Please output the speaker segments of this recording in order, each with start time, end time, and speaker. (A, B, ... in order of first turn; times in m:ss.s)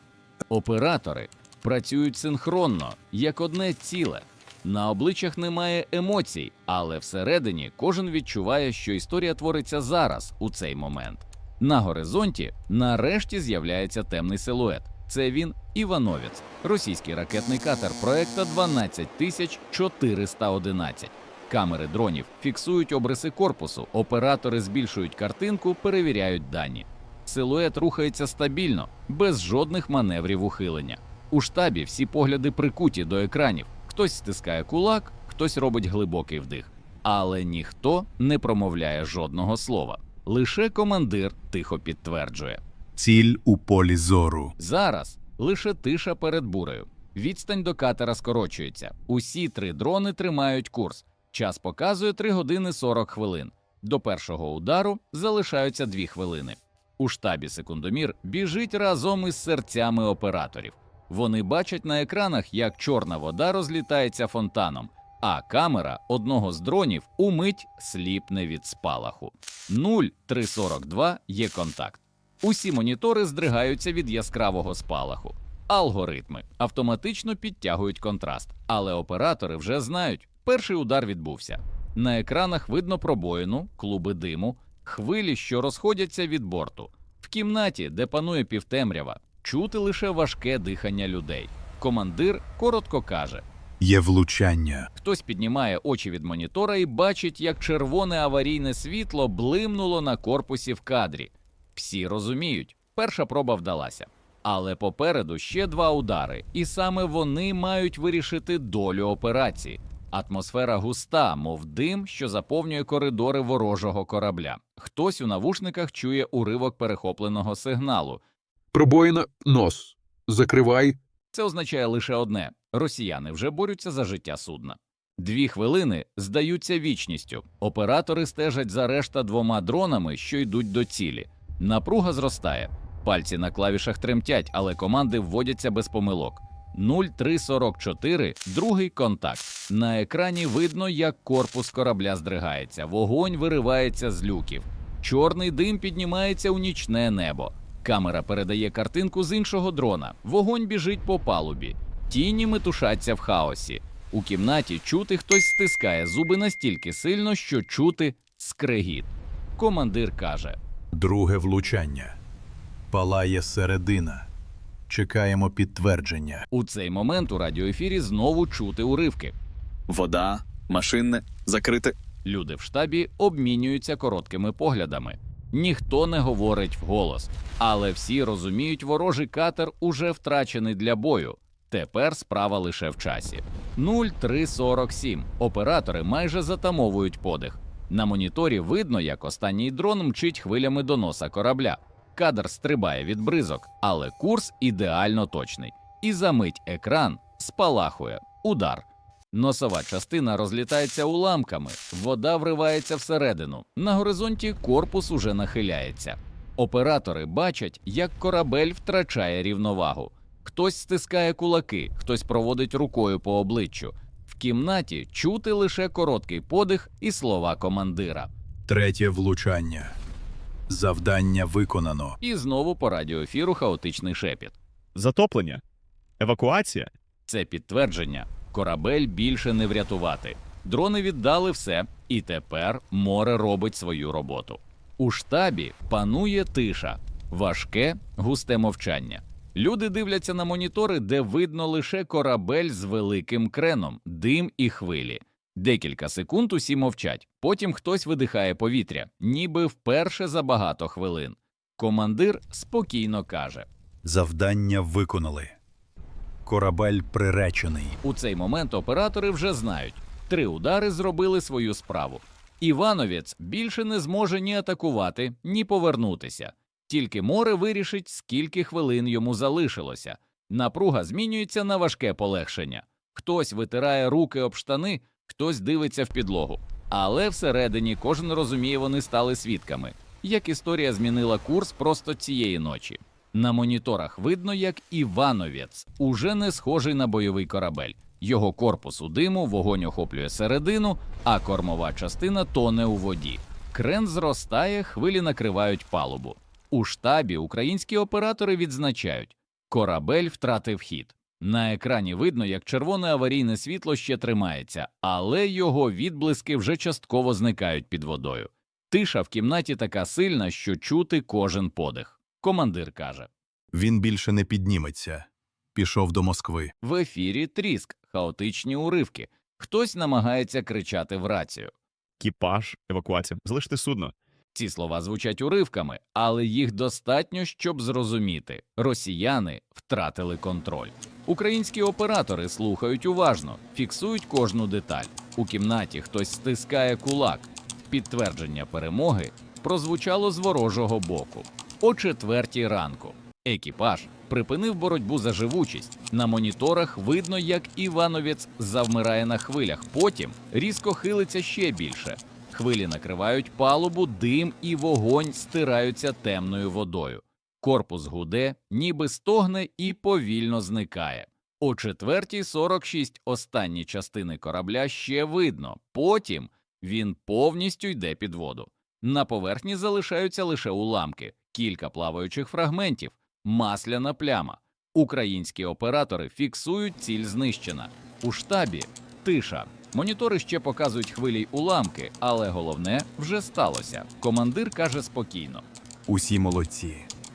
0:00.5-0:42.6 A
0:43.0-0:44.5 B
0:44.6-1:33.4 A
1:33.8-1:34.9 B
1:35.0-1:58.2 A
1:58.7-2:01.0 C
2:01.3-2:40.6 A
2:40.9-2:42.2 B
2:42.9-2:44.3 B
2:44.9-2:46.4 B
2:46.5-2:49.3 A
2:49.9-2:51.9 B
2:52.2-3:38.3 A
3:38.7-3:40.0 B
3:40.7-3:42.2 B
3:42.2-3:44.6 A
3:44.9-3:45.6 D
3:46.2-3:46.9 D
3:47.3-4:13.7 A
4:14.0-4:15.6 B
4:16.4-4:18.0 B
4:18.0-5:13.3 A
5:13.7-5:16.7 B
5:16.8-5:21.7 A
5:22.2-5:24.1 D
5:24.5-6:25.6 A
6:26.1-6:27.1 B